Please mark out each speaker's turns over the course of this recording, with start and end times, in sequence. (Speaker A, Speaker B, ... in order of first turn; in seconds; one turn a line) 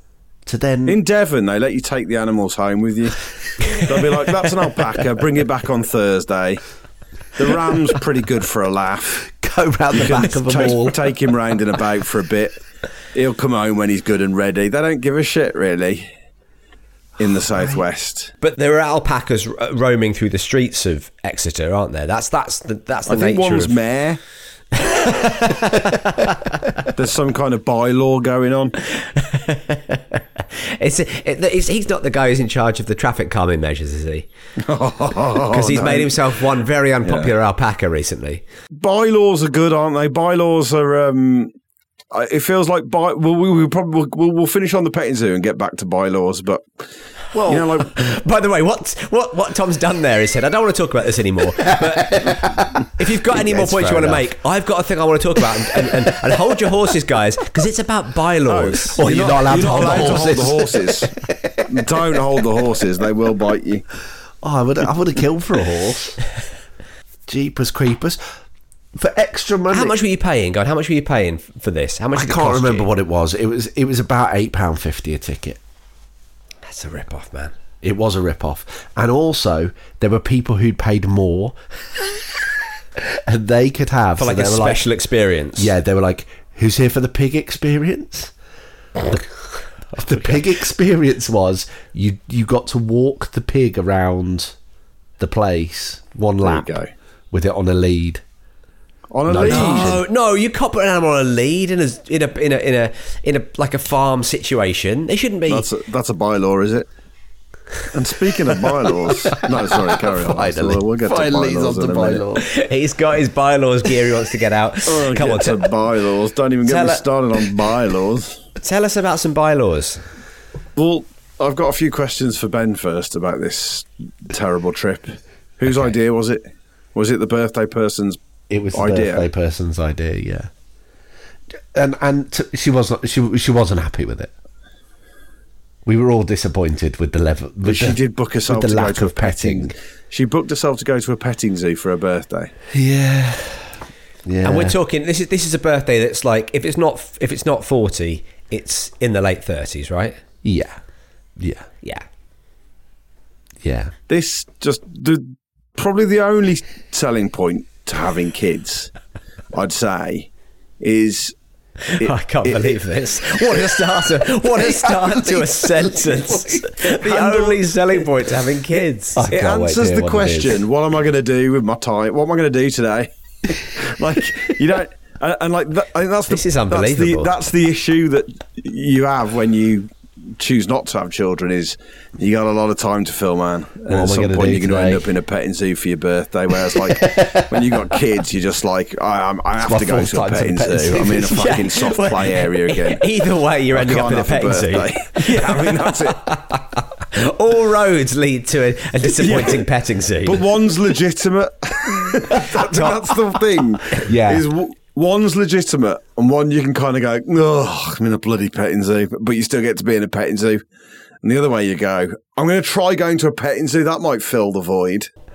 Speaker A: 0.5-1.0
Speaker B: 0.9-6.6
Speaker B: 7.3-9.2
Speaker A: 9.3-11.1
Speaker B: 9.9-12.6
Speaker B: 13.1-16.1
Speaker B: 17.2-18.3
Speaker A: 17.2-17.8
Speaker C: 18.4-23.8
Speaker B: 23.1-24.2
Speaker C: 24.7-26.5
Speaker B: 26.9-28.7
Speaker C: 28.9-34.3
Speaker B: 34.6-36.3
Speaker C: 35.5-38.4
Speaker B: 37.0-37.3
Speaker B: 38.7-41.5
Speaker B: 42.1-46.9
Speaker A: 47.3-47.7
Speaker B: 47.4-48.0
Speaker C: 47.9-60.2
Speaker A: 51.6-54.3
Speaker B: 58.5-61.1
Speaker A: 59.0-62.0
Speaker B: 61.7-63.8
Speaker A: 64.4-66.2
Speaker A: 67.3-68.2
Speaker A: 68.9-70.0
Speaker C: 69.7-72.9
Speaker A: 72.1-75.6
Speaker C: 76.6-77.5
Speaker A: 77.8-82.2
Speaker A: 83.0-84.8
Speaker C: 84.2-85.7
Speaker A: 85.5-88.3
Speaker A: 89.0-89.3
Speaker A: 89.9-94.5
Speaker A: 95.2-96.8
Speaker B: 96.4-96.9
Speaker A: 97.3-98.2
Speaker B: 99.1-99.9
Speaker A: 99.2-100.0
Speaker C: 99.4-105.7
Speaker B: 105.5-106.9
Speaker B: 107.9-112.2
Speaker A: 109.6-112.5
Speaker C: 112.4-115.7
Speaker B: 114.9-118.4
Speaker C: 116.6-117.0
Speaker C: 118.6-120.0
Speaker B: 120.8-128.2
Speaker A: 128.5-130.5
Speaker B: 128.7-129.3
Speaker A: 131.7-134.3
Speaker A: 135.8-139.7
Speaker B: 137.6-142.5
Speaker A: 142.7-144.8
Speaker C: 144.4-150.2
Speaker A: 150.4-150.8
Speaker A: 151.4-151.7
Speaker A: 153.6-153.9
Speaker B: 154.1-158.9
Speaker B: 159.5-161.3
Speaker C: 161.9-169.3
Speaker B: 162.0-162.8
Speaker A: 164.5-166.8
Speaker B: 167.0-167.6
Speaker A: 169.1-170.6
Speaker B: 169.3-193.1
Speaker C: 176.3-177.3
Speaker A: 183.9-185.1
Speaker A: 186.7-187.8
Speaker A: 189.6-191.6
Speaker C: 191.3-200.4
Speaker B: 193.7-196.3
Speaker B: 199.1-199.7
Speaker B: 200.2-210.6
Speaker C: 202.3-203.1
Speaker A: 204.0-204.5
Speaker B: 211.2-215.1